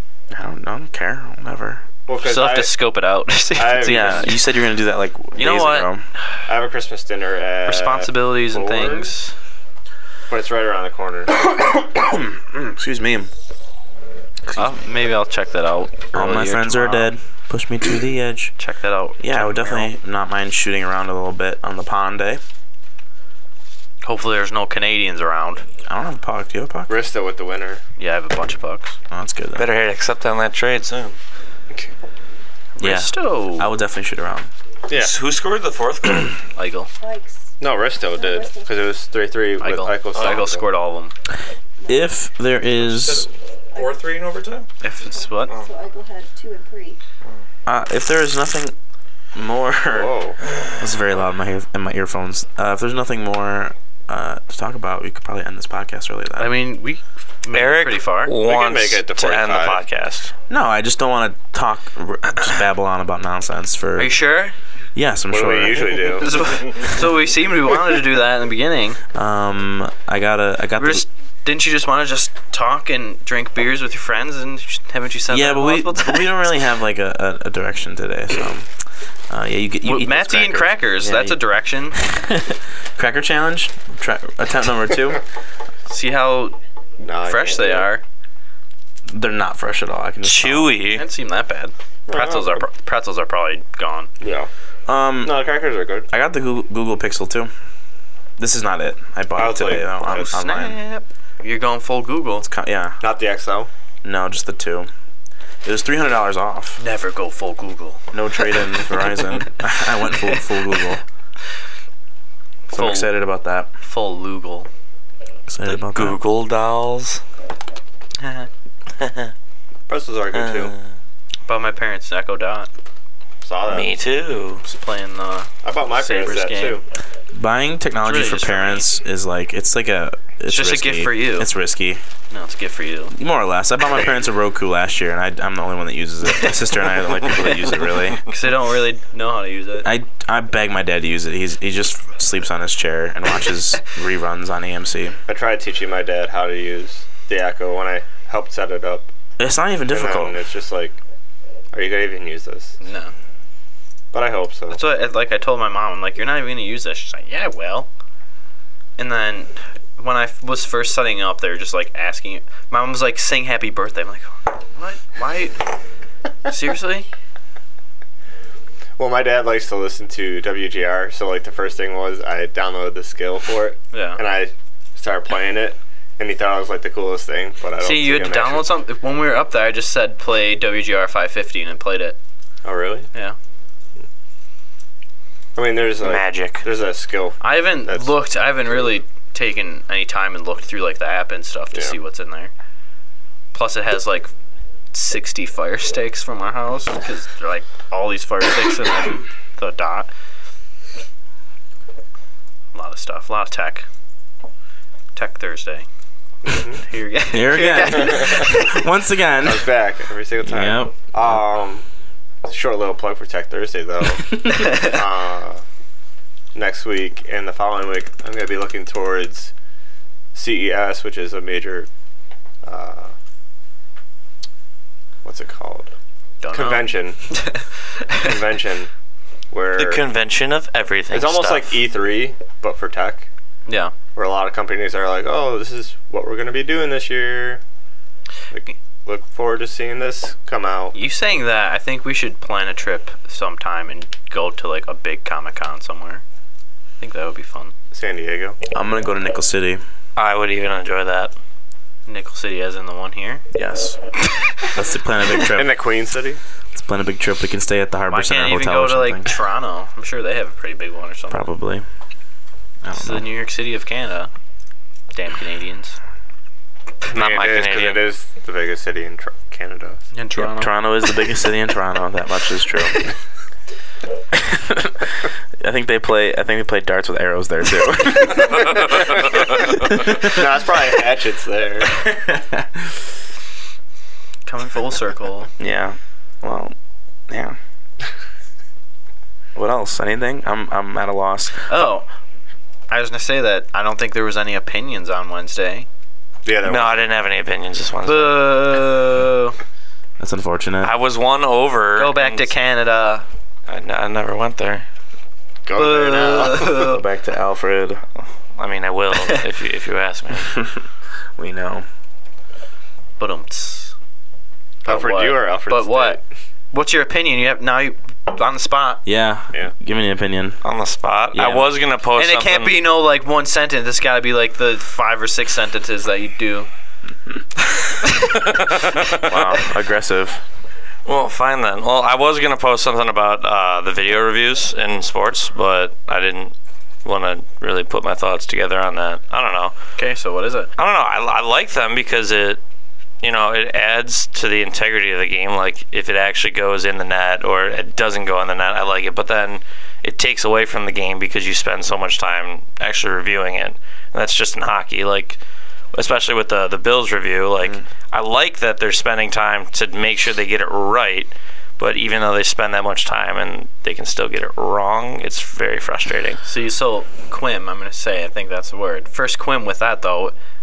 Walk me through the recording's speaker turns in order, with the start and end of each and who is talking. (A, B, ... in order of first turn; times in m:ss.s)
0:00.3-0:01.8 A
0:02.1-0:02.7 B
0:02.2-0:04.4 C
0:03.5-0:04.3 B
0:03.8-0:06.0 A
0:05.4-0:05.9 C
0:06.5-0:09.1 B
0:07.6-0:09.3 C
0:10.3-0:11.3 B
0:11.3-0:13.3 A
0:14.5-0:14.7 A
0:14.5-0:17.1 C
0:16.1-0:18.5 A
0:18.6-0:19.9 C
0:19.2-0:22.4 A
0:24.0-0:25.6 C
0:25.8-0:26.9 A
0:26.9-0:27.8 B
0:28.0-0:29.0 C
0:29.1-0:29.7 A
0:29.6-0:31.2 D
0:32.8-0:33.7 C
0:32.8-0:34.5 A
0:34.9-0:36.4 D
0:36.6-0:36.9 C
0:37.0-0:38.9 E
0:37.6-0:40.6 B
0:39.6-0:41.1 C
0:41.8-0:42.1 E
0:41.9-0:43.3 A
0:42.8-0:44.7 D
0:44.8-0:45.5 C
0:45.0-0:47.0 E
0:47.6-0:48.7 A
0:49.3-0:50.1 A
0:49.8-0:50.4 B
0:50.8-0:56.6 A
0:56.4-0:58.3 C
0:57.5-1:00.3 D
0:58.4-0:59.8 B
1:00.5-1:04.2 A
1:04.0-1:04.5 C
1:04.9-1:06.2 A
1:05.3-1:06.3 B
1:06.1-1:09.0 C
1:09.1-1:11.0 A
1:10.8-1:16.5 C
1:15.3-1:18.7 A
1:19.3-1:25.2 A
1:19.8-1:22.0 C
1:25.9-1:26.6 C
1:27.0-1:27.9 B
1:27.2-1:28.0 C
1:29.0-1:30.8 A
1:30.2-1:31.0 D
1:30.9-1:34.1 C
1:32.1-1:32.6 B
1:34.2-1:34.5 B
1:34.9-1:35.4 A
1:35.2-1:36.1 B
1:36.1-1:37.5 A
1:38.4-1:40.8 A
1:39.4-1:40.3 B
1:40.1-1:42.5 C
1:42.4-1:43.0 A
1:43.0-1:43.7 B
1:44.0-1:44.9 A
1:45.6-1:46.8 A
1:46.8-1:48.0 C
1:48.1-1:51.0 A
1:52.7-1:53.1 C
1:52.7-1:53.7 A
1:53.8-1:54.7 C
1:55.5-1:56.2 A
1:55.6-1:57.2 D
1:58.2-1:58.5 C
1:59.0-1:59.3 D
1:59.9-2:00.7 B
2:00.3-2:00.8 D
2:01.4-2:02.7 C
2:03.4-2:03.9 B
2:03.6-2:04.6 D
2:04.6-2:06.8 C
2:05.6-2:06.8 B
2:07.3-2:12.0 A
2:08.0-2:08.9 C
2:10.5-2:11.5 C
2:12.3-2:13.1 C
2:13.1-2:18.2 A
2:13.9-2:14.2 B
2:16.3-2:16.6 C
2:18.2-2:19.9 C
2:19.8-2:25.2 A
2:25.3-2:29.1 B
2:29.4-2:30.4 A
2:29.9-2:31.0 B
2:31.7-2:32.8 B
2:32.8-2:33.1 C
2:34.1-2:34.8 B
2:34.7-2:37.9 C
2:39.0-2:45.7 C
2:46.5-2:47.1 C
2:49.0-2:58.7 B
2:53.9-2:54.2 C
2:57.8-3:02.2 C
3:02.6-3:03.1 B
3:05.6-3:08.1 B
3:06.0-3:06.6 D
3:07.4-3:12.5 C
3:13.5-3:14.3 C
3:14.9-3:20.1 C
3:22.7-3:23.8 C
3:25.1-3:25.9 C
3:26.4-3:26.8 B
3:26.8-3:28.6 C
3:27.3-3:29.7 A
3:27.5-3:28.8 B
3:29.4-3:31.8 B
3:30.4-3:31.4 A
3:32.4-3:35.6 B
3:34.5-3:34.9 C
3:36.5-3:39.5 B
3:40.3-3:41.9 B
3:42.6-3:43.1 B
3:45.2-3:45.9 B
3:46.4-3:48.3 C
3:46.5-3:47.3 B
3:48.2-3:48.9 B
3:49.5-3:50.0 B
3:49.8-3:51.8 D
3:51.1-3:53.3 B
3:53.6-3:53.9 C
3:54.1-3:57.6 B
3:58.5-4:00.9 B
4:00.9-4:06.2 C
4:07.0-4:07.7 C
4:07.9-4:08.6 B
4:08.7-4:09.8 A
4:10.2-4:11.3 D
4:12.1-4:13.4 C
4:13.5-4:14.0 A
4:14.6-4:15.8 A
4:15.4-4:16.4 B
4:16.7-4:19.4 A
4:18.1-4:21.5 C
4:21.3-4:21.8 A
4:22.8-4:23.3 A
4:22.9-4:24.3 C
4:25.1-4:26.0 C
4:27.1-4:30.0 B
4:27.1-4:28.0 D
4:30.1-4:30.8 C
4:30.4-4:33.0 A
4:34.3-4:40.5 A
4:38.2-4:42.0 B
4:41.9-4:43.0 A
4:44.4-4:45.5 C
4:45.6-4:46.7 A
4:47.3-4:47.6 A
4:49.5-4:51.9 A
4:51.7-4:52.1 C
4:52.9-4:55.9 C
4:56.4-4:57.1 B
4:56.6-4:58.5 D
4:58.0-4:59.6 C
5:00.2-5:00.9 A
5:00.8-5:02.5 D
5:02.0-5:03.2 C
5:03.7-5:04.8 D
5:05.6-5:06.7 B
5:05.7-5:07.0 C
5:06.6-5:08.0 A
5:08.6-5:10.5 D
5:09.1-5:09.4 C
5:10.5-5:10.8 A
5:11.4-5:11.8 A
5:13.2-5:13.9 C
5:14.8-5:16.2 B
5:14.8-5:16.2 C
5:16.7-5:19.0 C
5:19.0-5:20.6 A
5:20.6-5:22.8 D
5:21.3-5:21.7 A
5:22.2-5:26.7 C
5:27.8-5:28.6 C
5:28.4-5:29.4 D
5:29.2-5:30.4 A
5:31.0-5:39.7 D
5:40.0-5:40.7 C
5:40.8-5:42.6 D
5:43.2-5:55.4 D
5:55.9-6:06.4 D
6:06.4-6:10.3 C